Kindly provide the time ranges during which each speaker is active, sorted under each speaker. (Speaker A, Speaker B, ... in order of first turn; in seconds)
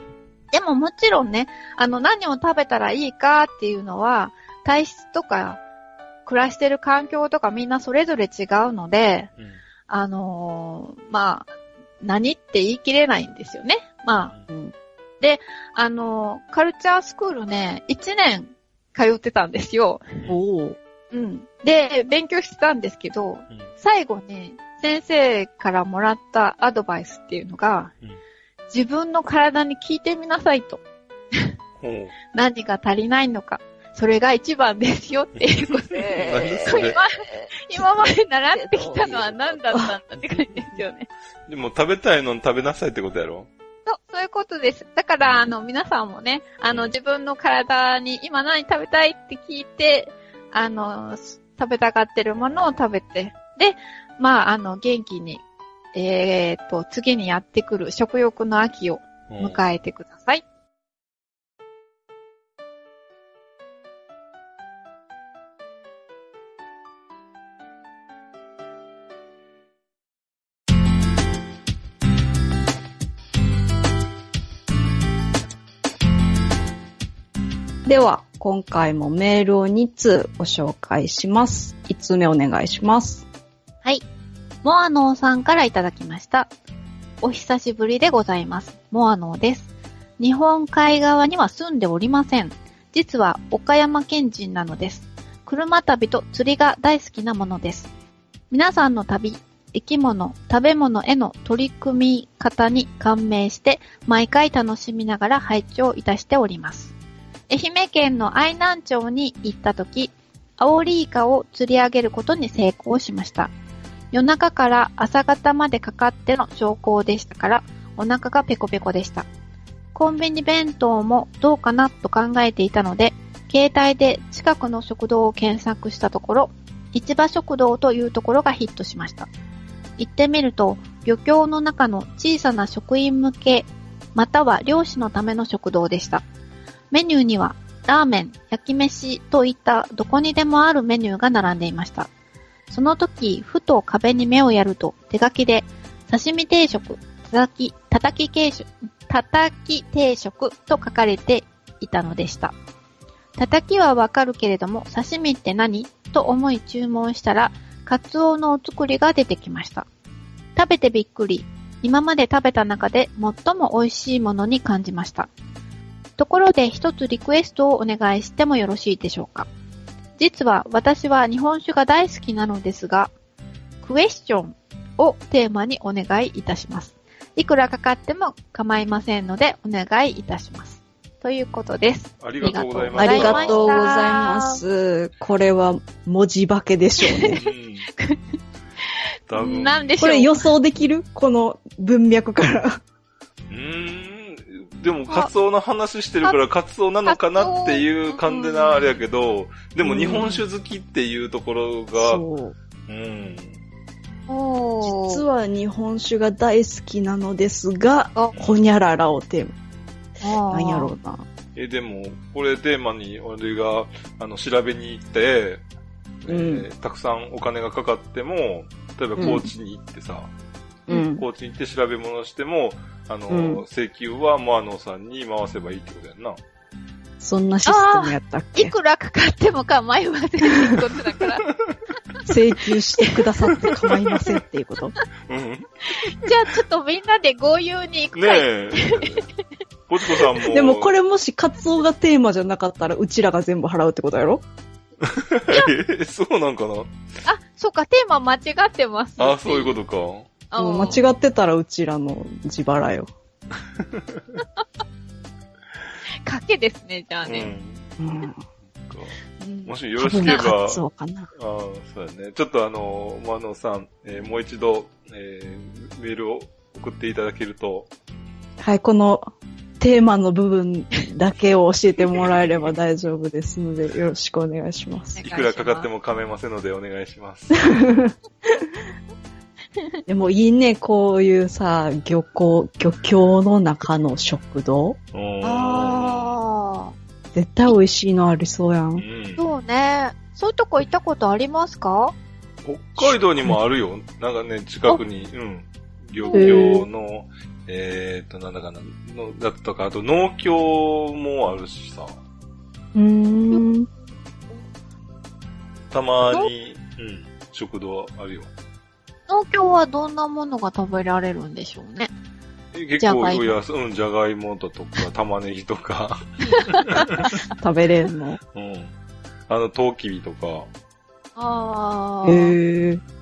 Speaker A: 0.5-5.6, 6.3-9.3, 9.9-11.5, 12.0-14.3, 15.2-20.0, 21.1-27.9, 28.7-30.8, 32.3-41.1, 43.9-55.4, 56.0-60.4, 84.6-86.5, 87.2-97.9, 98.5-106.9, 107.5-113.5, 114.1-119.3, 120.0-129.3, 130.0-136.2, 136.9-142.1, 142.7-152.5, 153.4-159.9, 160.6-165.3, 166.2-169.5, 170.2-173.1, 173.8-184.6, 187.1-188.4, 189.3-190.4, 197.1-199.0, 204.3-205.2, 210.2-210.9, 227.7-231.5, 235.9-239.2, 247.3-249.8, 250.5-251.0, 256.3-257.5, 259.4-260.5, 275.1-275.9, 285.4-286.9, 289.4-292.1, 296.1-296.8, 309.3-312.1, 313.0-313.6, 316.5-317.0, 321.4-322.6
Speaker B: 20.3-20.8, 36.1-37.0, 38.5-39.9, 77.8-83.3, 182.9-187.4, 190.0-192.8, 199.8-200.4, 201.9-202.6, 204.8-209.6, 210.5-211.2, 216.3-216.7, 219.2-219.5, 220.9-221.2, 223.3-223.6, 227.2-228.7, 232.3-234.9, 240.5-244.4, 250.6-253.1, 258.0-258.4, 260.0-261.3, 268.6-269.3, 269.8-275.2, 277.7-278.7, 280.1-285.0, 287.3-289.1, 293.0-293.6, 296.3-296.9, 302.9-303.9, 317.2-318.4, 322.2-323.0
Speaker C: 31.8-32.1, 35.4-37.0, 41.5-43.5, 45.2-45.5, 52.4-52.8, 59.3-59.6, 182.2-183.8, 187.3-187.9, 189.3-189.9, 193.5-202.2, 202.9-203.6, 211.6-215.6, 216.2-220.3, 221.2-226.4, 235.3-235.7, 238.2-239.2, 239.9-240.9, 245.0-246.9, 249.2-250.3, 253.9-254.2, 257.3-257.9, 258.9-267.9, 275.2-277.8, 285.1-286.4, 288.9-289.4, 292.6-302.1, 305.9-308.5, 312.7-317.3, 318.5-318.9, 319.5-320.7